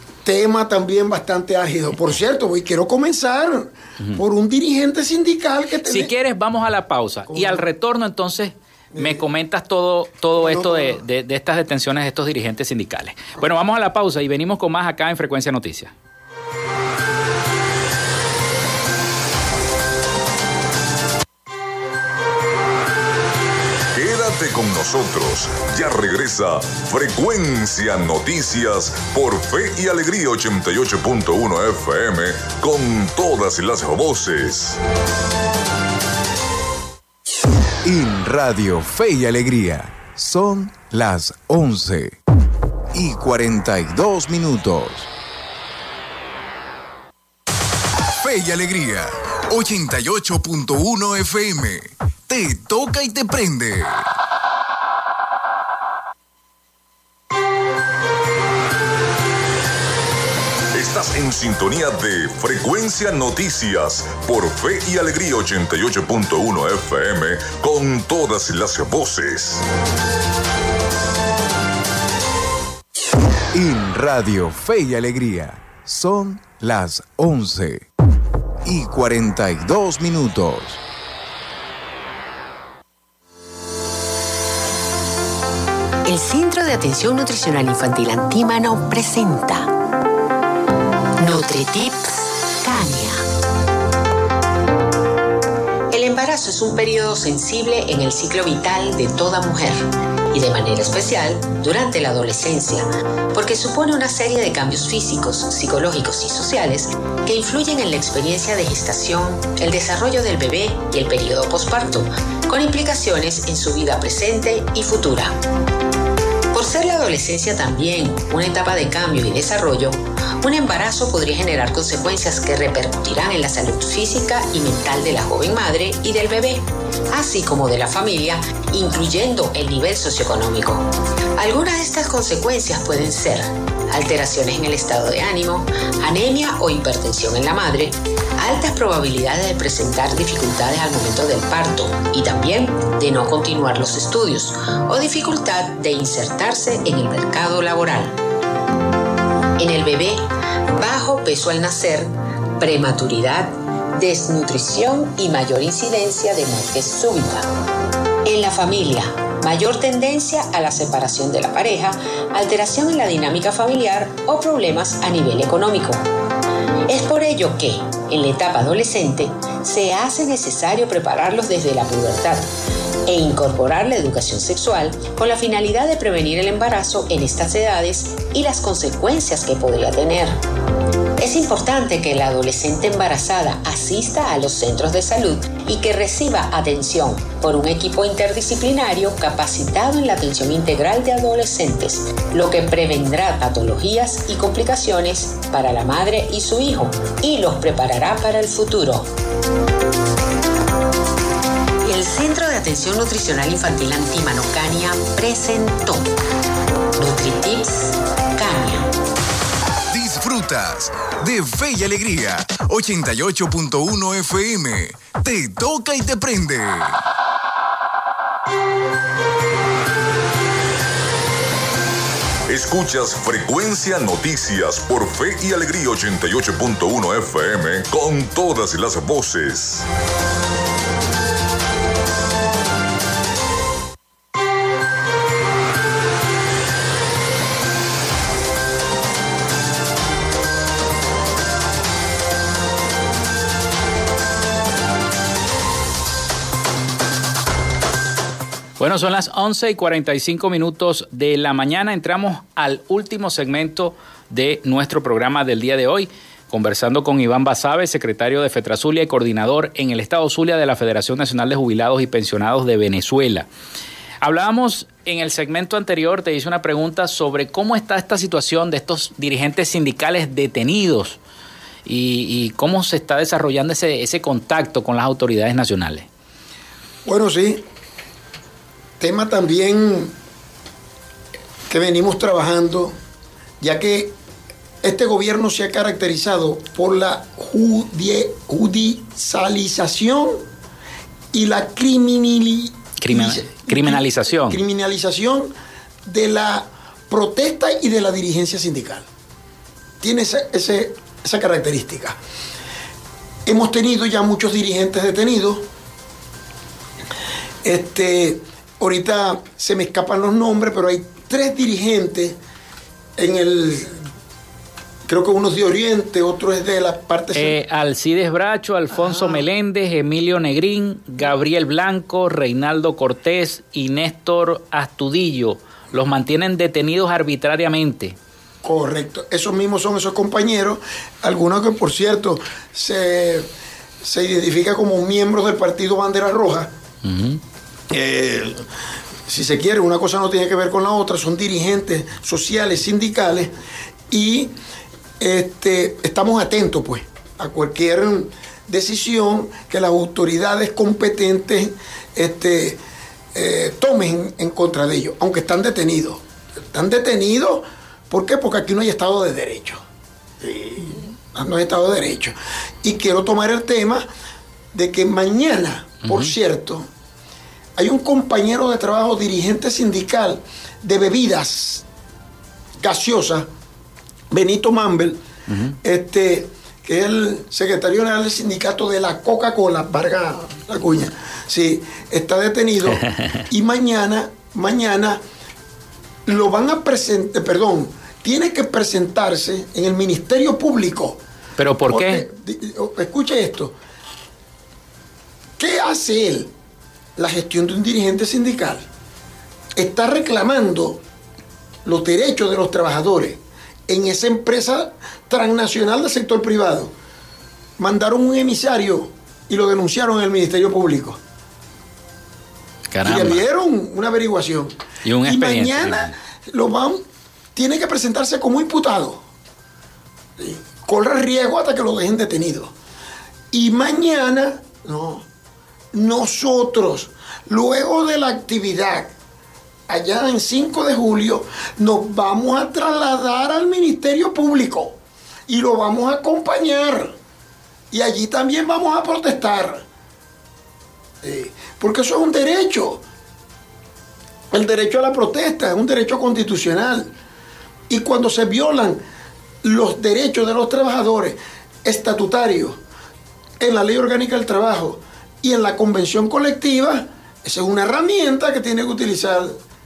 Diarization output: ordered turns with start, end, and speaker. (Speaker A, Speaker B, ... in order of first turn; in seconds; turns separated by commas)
Speaker A: 0.2-6.1, Speaker B: 5.9-15.9, Speaker A: 7.3-7.6, Speaker A: 8.9-9.2, Speaker A: 10.4-11.0, Speaker C: 23.9-34.8, Speaker D: 37.8-42.1, Speaker D: 42.9-45.1, Speaker D: 48.2-54.1, Speaker C: 60.7-69.6, Speaker D: 73.5-77.8, Speaker D: 78.6-80.8, Speaker E: 86.0-89.7, Speaker E: 91.2-93.2, Speaker E: 95.9-115.3, Speaker E: 116.5-148.2, Speaker E: 149.6-157.4, Speaker E: 158.2-166.1, Speaker E: 166.9-172.4, Speaker E: 173.1-180.4, Speaker E: 181.2-199.1, Speaker E: 201.8-206.1, Speaker E: 207.0-208.9, Speaker D: 209.9-217.0, Speaker C: 222.5-229.9, Speaker B: 248.8-263.5, Speaker B: 264.2-271.2, Speaker B: 271.9-276.1, Speaker A: 277.1-277.6, Speaker A: 279.0-280.1, Speaker A: 281.7-282.9, Speaker A: 283.6-284.1, Speaker A: 284.8-290.4, Speaker A: 291.3-295.5, Speaker B: 293.0-294.6, Speaker A: 296.1-299.1, Speaker A: 300.0-302.2, Speaker A: 303.4-305.7, Speaker A: 307.6-312.4, Speaker A: 313.2-314.0, Speaker A: 315.1-317.6, Speaker B: 317.3-328.1, Speaker A: 318.9-319.4, Speaker A: 328.6-333.5, Speaker A: 334.0-336.7, Speaker B: 337.1-337.4, Speaker A: 337.9-338.6, Speaker A: 339.3-343.5, Speaker A: 344.1-344.5, Speaker A: 345.2-352.8, Speaker A: 353.3-359.8, Speaker A: 360.4-364.1, Speaker A: 364.7-366.9, Speaker B: 366.1-366.3, Speaker A: 367.8-371.8, Speaker A: 372.8-373.5, Speaker A: 374.3-375.2, Speaker B: 375.5-375.8, Speaker A: 375.8-385.2, Speaker B: 382.9-383.4, Speaker A: 386.3-391.2, Speaker B: 391.6-392.2, Speaker A: 391.9-393.7, Speaker A: 395.6-396.5, Speaker A: 397.2-398.8, Speaker A: 399.8-401.0, Speaker A: 401.8-406.9, Speaker A: 407.8-411.2, Speaker B: 412.9-413.4, Speaker A: 413.0-417.0, Speaker B: 415.0-416.1, Speaker A: 417.6-419.2, Speaker A: 420.4-422.7, Speaker A: 423.5-425.2, Speaker A: 425.9-429.1, Speaker A: 429.9-435.0, Speaker A: 435.5-437.1, Speaker A: 437.9-439.8, Speaker A: 441.2-443.0, Speaker A: 444.5-447.1, Speaker A: 447.9-449.0, Speaker A: 449.6-452.8, Speaker A: 453.6-459.6